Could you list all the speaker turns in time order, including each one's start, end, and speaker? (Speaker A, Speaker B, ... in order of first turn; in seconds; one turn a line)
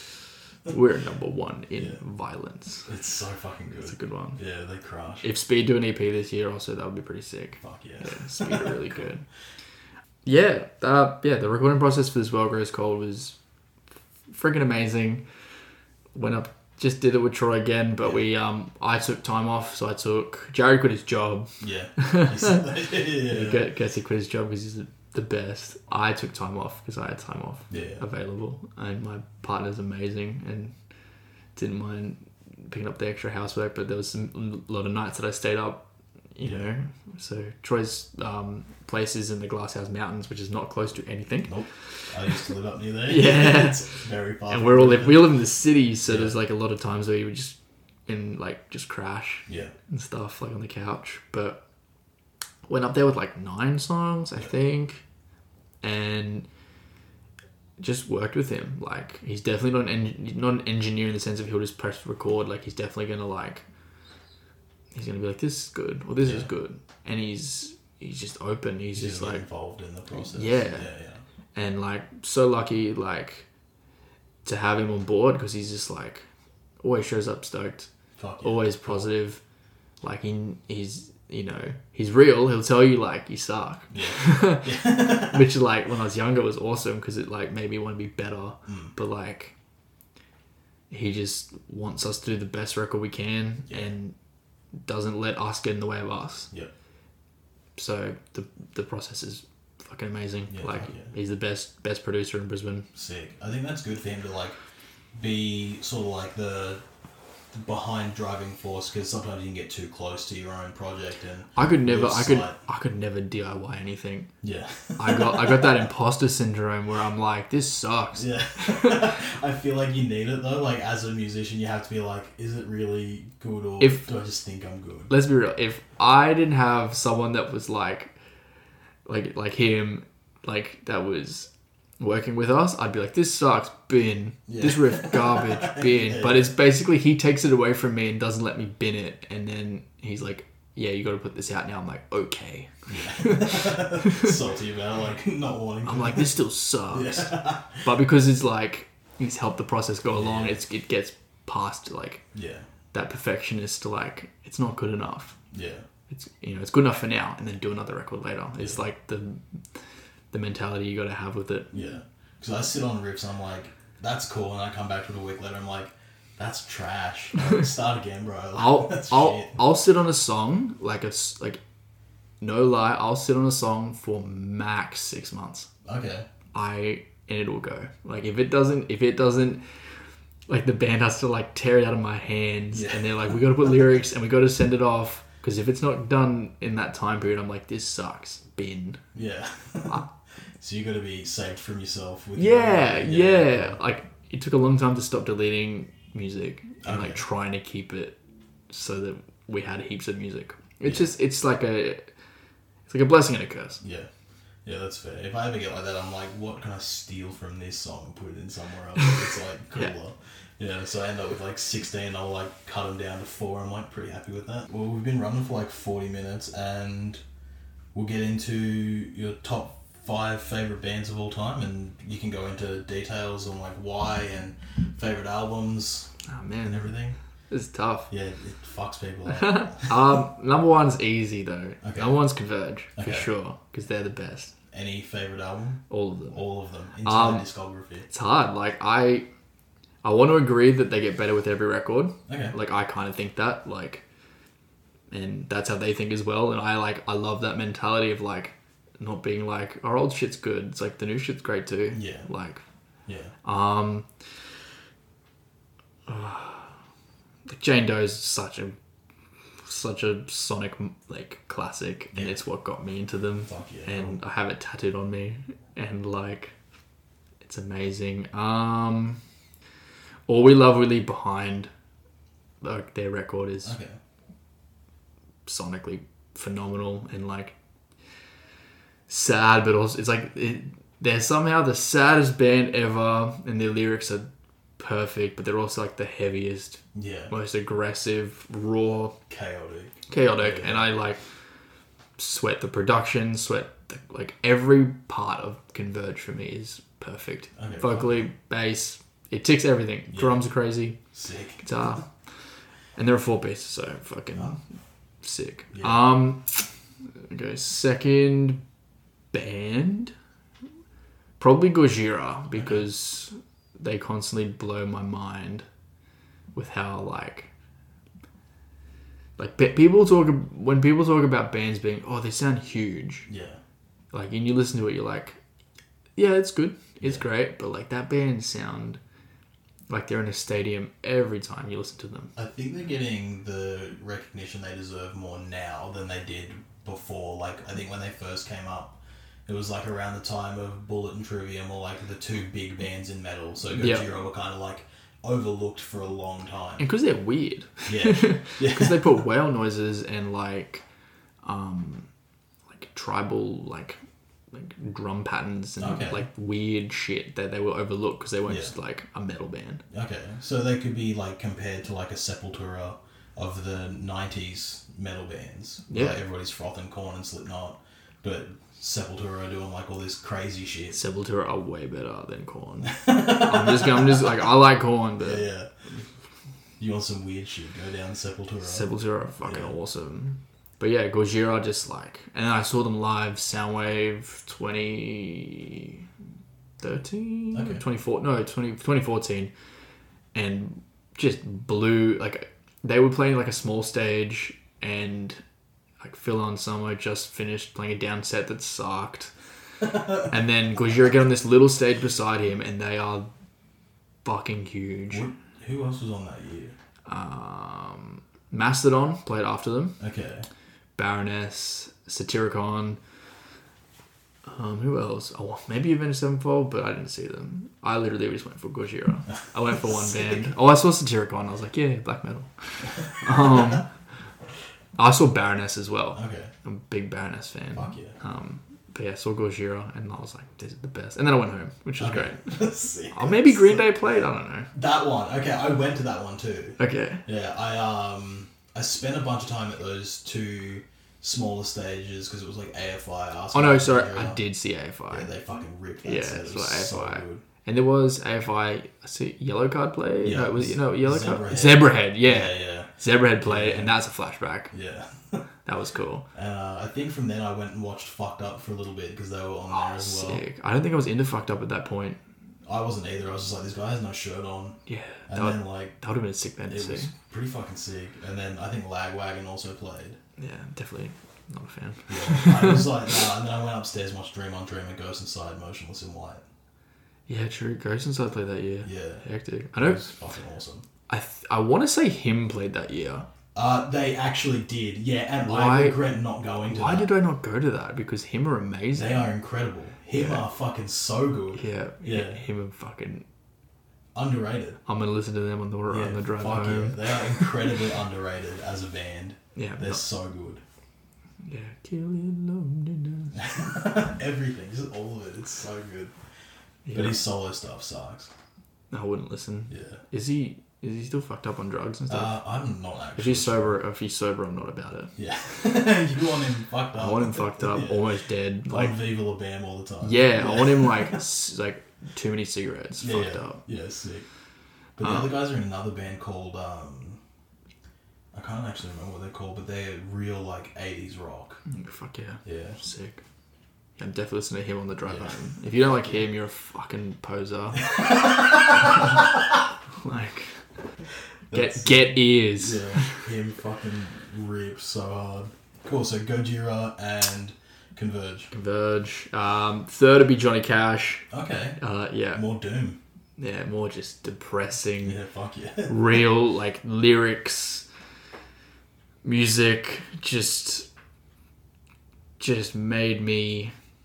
Speaker A: 0.7-2.9
Speaker B: 2.9-5.3
Speaker A: 3.8-4.4
Speaker A: 5.2-9.2
Speaker B: 7.6-8.9
Speaker A: 10.2-13.4
Speaker A: 14.3-15.2
Speaker A: 16.1-30.7
Speaker B: 21.6-23.7
Speaker B: 27.7-28.0
Speaker A: 31.6-42.4
Speaker B: 41.5-45.3
Speaker A: 43.1-43.9
Speaker A: 44.5-51.6
Speaker B: 46.0-46.4
Speaker B: 49.5-49.7
Speaker A: 52.7-55.0
Speaker A: 55.8-56.5
Speaker A: 57.8-63.6
Speaker A: 64.9-69.5
Speaker B: 66.2-66.5
Speaker B: 69.0-71.2
Speaker A: 70.1-70.9
Speaker A: 71.5-73.5
Speaker A: 74.5-76.3
Speaker A: 76.8-77.9
Speaker B: 78.2-79.1
Speaker A: 78.4-79.4
Speaker A: 80.0-89.5
Speaker B: 83.9-85.5
Speaker B: 88.7-88.9
Speaker A: 90.9-94.1
Speaker A: 94.8-96.5
Speaker A: 97.8-102.9
Speaker B: 100.5-101.1
Speaker B: 103.0-104.6
Speaker B: 105.1-106.8
Speaker B: 107.5-112.6
Speaker A: 111.6-114.3
Speaker B: 114.4-115.9
Speaker A: 115.0-119.1
Speaker B: 118.2-125.1
Speaker A: 123.8-124.1
Speaker A: 125.1-128.1
Speaker A: 129.1-144.4
Speaker B: 134.5-136.5
Speaker B: 142.9-146.3
Speaker A: 145.8-152.2
Speaker B: 146.9-147.9
Speaker B: 150.1-150.6
Speaker B: 152.3-152.7
Speaker A: 152.9-155.4
Speaker B: 155.5-155.8
Speaker A: 156.1-159.4
Speaker A: 160.3-161.8
Speaker B: 161.7-169.6
Speaker A: 168.6-171.6
Speaker A: 172.4-175.7
Speaker B: 175.9-176.3
Speaker A: 176.5-179.6
Speaker A: 180.5-189.0
Speaker B: 182.7-183.8
Speaker B: 189.2-190.1
Speaker B: 190.6-193.8
Speaker A: 192.4-198.2
Speaker B: 196.8-197.2
Speaker A: 198.7-202.1
Speaker B: 200.8-201.1
Speaker A: 202.9-203.8
Speaker B: 203.8-204.1
Speaker B: 204.7-217.2
Speaker B: 217.9-226.1
Speaker A: 226.3-226.9
Speaker B: 226.6-227.2
Speaker A: 227.5-228.1
Speaker B: 228.1-230.0
Speaker A: 229.3-234.5
Speaker B: 231.8-232.2
Speaker B: 233.0-233.3
Speaker B: 234.7-238.1
Speaker A: 235.9-236.4
Speaker A: 237.0-237.5
Speaker A: 238.1-239.3
Speaker A: 240.0-244.0
Speaker B: 242.3-242.6
Speaker A: 245.1-252.6
Speaker B: 251.9-252.3
Speaker B: 253.1-253.3
Speaker A: 253.4-254.1
Speaker A: 256.1-256.7
Speaker A: 257.5-258.8
Speaker A: 259.6-266.5
Speaker B: 263.5-264.2
Speaker A: 267.4-269.2
Speaker A: 270.3-271.7
Speaker A: 272.6-273.8
Speaker B: 273.6-274.0
Speaker A: 275.5-277.6
Speaker A: 279.1-289.2
Speaker B: 286.9-287.3
Speaker B: 289.3-290.9
Speaker A: 290.1-291.2
Speaker A: 292.2-301.0
Speaker B: 297.6-298.3
Speaker B: 300.1-300.4
Speaker B: 301.1-302.0
Speaker A: 301.6-302.1
Speaker A: 303.0-304.6
Speaker A: 305.2-308.6
Speaker B: 305.7-306.1
Speaker A: 309.3-310.1
Speaker A: 311.4-315.7
Speaker B: 312.5-312.8
Speaker A: 316.5-317.5
Speaker A: 319.4-323.3
Speaker B: 323.3-323.6
Speaker A: 324.1-325.4
Speaker A: 326.2-329.0
Speaker A: 329.9-332.3
Speaker B: 332.4-346.9
Speaker A: 343.7-344.1
Speaker A: 346.8-350.8
Speaker B: 347.9-349.2
Speaker A: 351.4-352.1
Speaker A: 352.7-354.0
Speaker A: 354.5-359.8
Speaker B: 355.8-356.2
Speaker B: 358.5-358.7
Speaker B: 359.9-371.0
Speaker A: 365.9-366.2
Speaker A: 370.9-375.5
Speaker B: 372.9-374.4
Speaker B: 375.2-375.7
Speaker B: 376.8-378.9
Speaker A: 378.6-386.1
Speaker B: 379.4-379.7
Speaker A: 386.8-389.5
Speaker B: 387.5-387.8
Speaker A: 390.3-395.4
Speaker A: 396.0-399.3
Speaker A: 399.9-403.3
Speaker A: 404.2-405.2
Speaker B: 405.1-406.8
Speaker A: 407.1-410.0
Speaker B: 410.0-410.5
Speaker A: 411.0-413.0
Speaker A: 414.5-423.9
Speaker B: 419.9-420.4
Speaker A: 425.0-432.6
Speaker B: 426.1-426.5
Speaker B: 427.7-428.2
Speaker B: 432.0-433.9
Speaker A: 433.1-434.7
Speaker B: 434.7-444.4
Speaker A: 436.8-437.2
Speaker A: 443.5-445.3
Speaker B: 445.1-447.4
Speaker A: 446.0-454.7
Speaker B: 450.2-453.9
Speaker B: 454.7-455.5
Speaker A: 455.7-456.3
Speaker B: 456.3-460.4
Speaker A: 459.7-462.2
Speaker B: 462.7-464.8
Speaker A: 464.9-467.1
Speaker B: 465.3-466.0
Speaker B: 466.7-470.2
Speaker A: 470.4-473.1
Speaker B: 472.1-476.4
Speaker A: 477.3-480.1
Speaker B: 478.8-480.9
Speaker A: 481.1-483.3
Speaker B: 483.6-487.1
Speaker A: 485.5-486.0
Speaker A: 486.7-489.3
Speaker B: 488.9-492.4
Speaker A: 490.1-490.5
Speaker A: 491.5-493.3
Speaker B: 494.1-494.8
Speaker A: 494.9-497.7
Speaker B: 495.9-500.6
Speaker A: 499.6-500.0
Speaker A: 501.4-503.4
Speaker B: 503.4-506.1
Speaker A: 506.9-507.2
Speaker B: 506.9-508.3
Speaker A: 508.9-512.4
Speaker B: 509.7-510.0
Speaker B: 512.1-513.8
Speaker A: 513.2-515.1
Speaker B: 515.2-518.0
Speaker A: 517.0-519.0
Speaker B: 518.7-521.2
Speaker A: 520.0-523.6
Speaker B: 523.0-524.2
Speaker B: 525.0-527.2
Speaker A: 525.0-525.3
Speaker B: 528.3-531.6
Speaker A: 531.7-533.2
Speaker B: 532.5-532.8
Speaker A: 534.0-538.0
Speaker B: 535.1-536.1
Speaker B: 537.8-539.2
Speaker A: 538.8-539.1
Speaker A: 540.0-540.6
Speaker B: 541.5-548.5
Speaker A: 541.5-543.2
Speaker A: 548.5-551.3
Speaker B: 551.3-551.8
Speaker A: 551.8-552.4
Speaker B: 552.3-553.0
Speaker A: 553.4-555.2
Speaker B: 555.0-556.2
Speaker A: 555.9-557.9
Speaker A: 559.2-560.9
Speaker A: 562.4-563.7